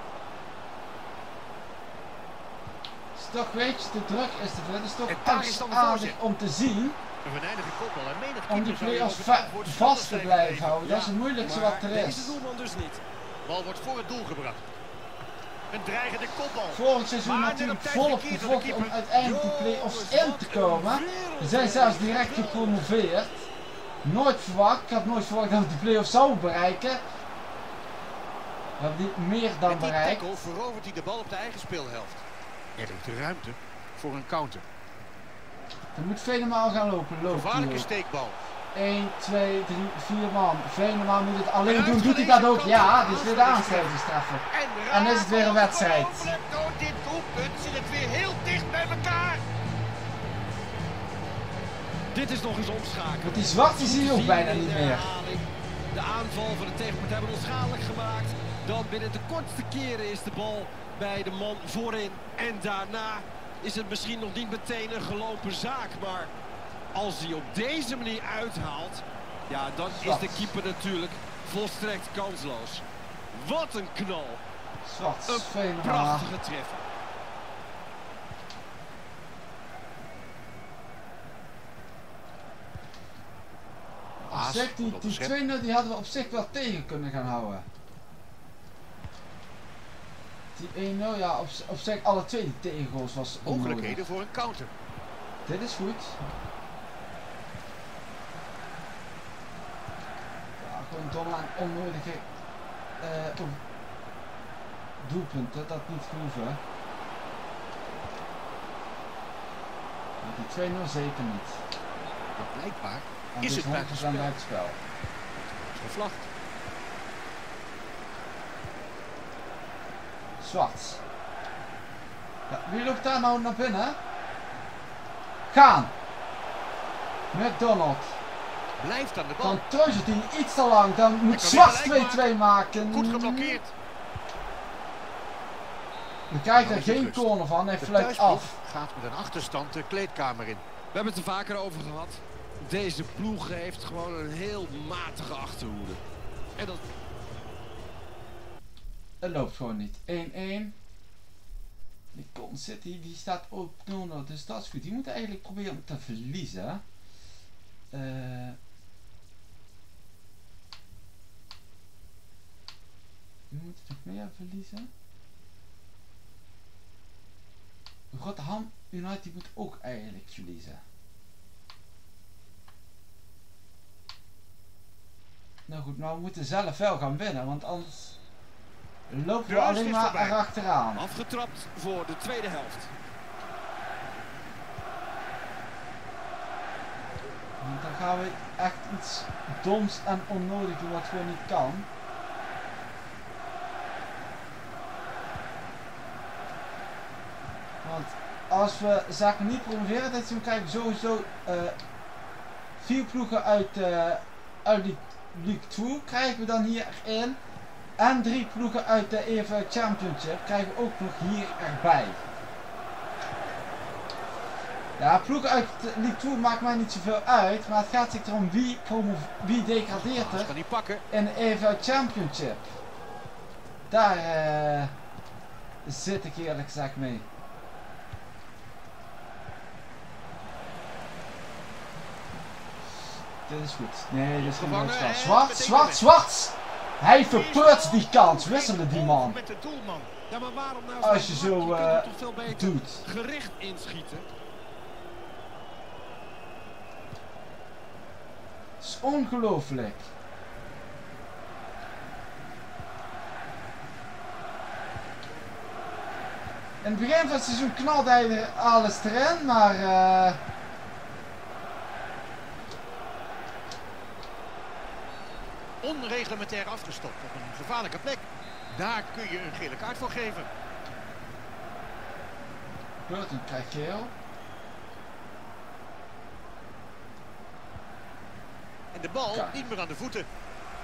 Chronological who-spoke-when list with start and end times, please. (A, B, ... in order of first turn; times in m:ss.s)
0:03.1-0:07.0 A
0:05.1-0:06.2 B
0:07.2-0:11.1 B
0:08.5-0:12.4 A
0:10.8-0:13.0 C
0:13.4-0:14.6 B
0:15.7-0:19.0 B
0:16.7-0:23.5 A
0:19.2-0:22.7 C
0:24.0-0:27.0 A
0:28.8-0:30.5 A
0:29.6-0:32.2 B
0:32.8-0:34.6 B
0:35.9-0:37.9 A
0:37.3-0:38.4 B
0:38.7-0:46.3 A
0:41.6-0:49.4 B
0:52.1-1:06.3 C
0:53.2-0:55.1 A
1:06.9-1:14.4 C
1:10.0-1:10.5 A
1:14.8-1:16.3 A
1:15.3-1:16.9 C
1:24.2-1:27.7 A
1:24.3-1:25.3 B
1:30.5-1:34.0 A
1:33.4-1:34.7 B
1:35.4-1:36.2 A
1:40.6-1:42.2 A
1:43.0-1:43.6 A
1:45.0-1:46.6 A
1:50.2-1:51.6 A
1:52.4-1:54.3 B
1:53.3-1:54.8 A
1:55.3-1:56.3 B
2:00.4-2:01.0 A
2:02.5-2:04.0 A
2:05.5-2:05.9 A
2:07.3-2:08.1 A
2:08.8-2:09.6 B
2:09.4-2:13.6 A
2:11.3-2:12.3 B
2:12.9-2:13.7 B
2:16.3-2:18.6 A
2:16.5-2:17.3 B
2:17.8-2:20.6 B
2:20.9-2:26.0 C
2:26.6-2:26.8 C
2:29.2-2:30.8 A
2:32.1-2:36.8 A
2:37.9-2:38.6 A
2:43.5-2:44.9 A
2:48.1-2:50.8 A
2:55.7-2:58.2 A
2:59.1-3:01.0 A
2:59.5-3:00.4 B
3:00.9-3:02.9 C
3:07.6-3:11.9 A
3:17.8-3:21.8 A
3:22.8-3:27.4 A
3:28.0-3:32.2 A
3:35.0-3:40.5 A
3:39.9-3:41.0 B
3:41.1-3:42.7 A
3:43.9-3:44.9 A
3:45.8-3:47.2 A
3:53.4-3:59.4 A
3:54.4-3:56.1 B
3:57.2-4:00.1 B
4:00.3-4:04.3 C
4:01.0-4:03.0 A
4:08.8-4:10.1 A
4:16.8-4:20.4 A
4:25.8-4:30.5 B
4:33.0-4:34.1 A
4:38.9-4:40.3 B
4:39.3-4:39.7 A